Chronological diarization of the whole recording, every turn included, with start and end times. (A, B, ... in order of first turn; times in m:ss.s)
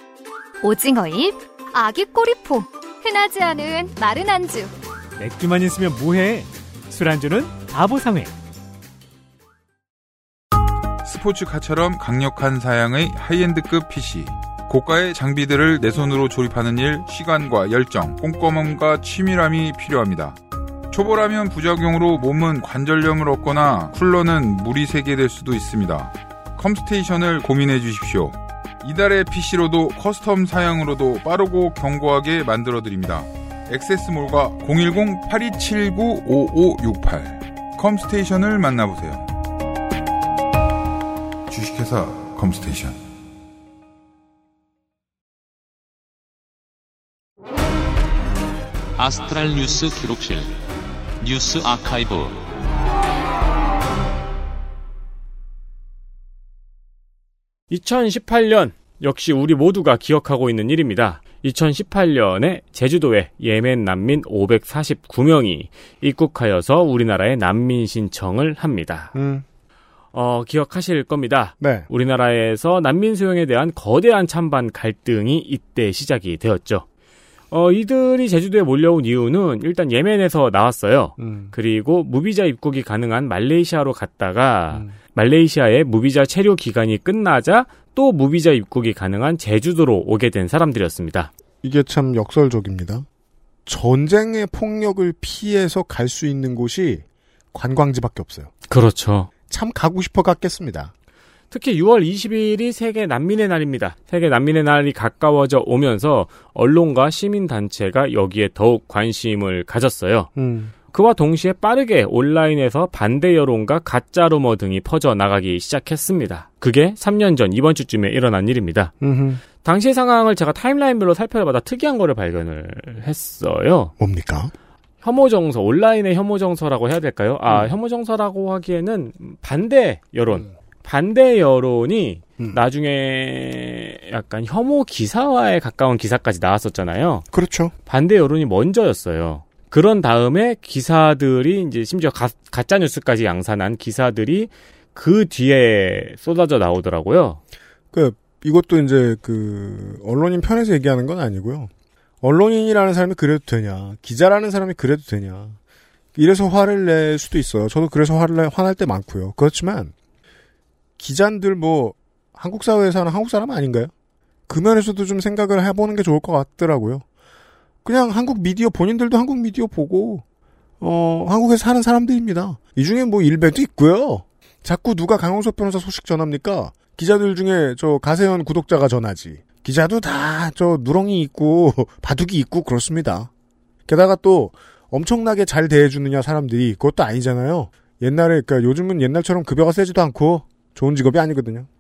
0:00.6-0:04.7 A
0:05.2-0:08.3 B
0:11.0-0:20.4 C
0:20.9-0:39.3 C
0:41.5-0:43.0 C
0:49.0-0:50.5 D
0:51.2-0:52.4 D
0:57.7-1:09.1 E
1:09.2-1:09.4 F
1:10.1-1:16.8 E
1:11.6-1:11.9 F
1:17.5-1:31.3 E
1:21.2-1:21.5 F
1:31.6-1:33.1 F
1:33.7-1:38.5 F
1:38.7-1:39.3 E
1:39.5-1:40.9 F
1:41.5-1:50.3 E
1:50.4-1:50.7 F
1:50.9-1:58.9 E
1:59.0-1:59.4 F
1:59.6-2:03.9 E
2:04.0-2:04.5 F
2:05.0-2:17.3 E
2:07.5-2:07.7 F
2:17.3-2:17.7 F
2:17.9-2:27.4 E
2:27.9-2:31.7 F
2:32.2-2:35.6 F
2:36.2-2:39.9 F
2:41.0-2:43.9 F
2:44.5-2:47.0 F
2:47.8-2:50.2 F
2:50.8-3:03.3 F
3:03.9-3:11.7 F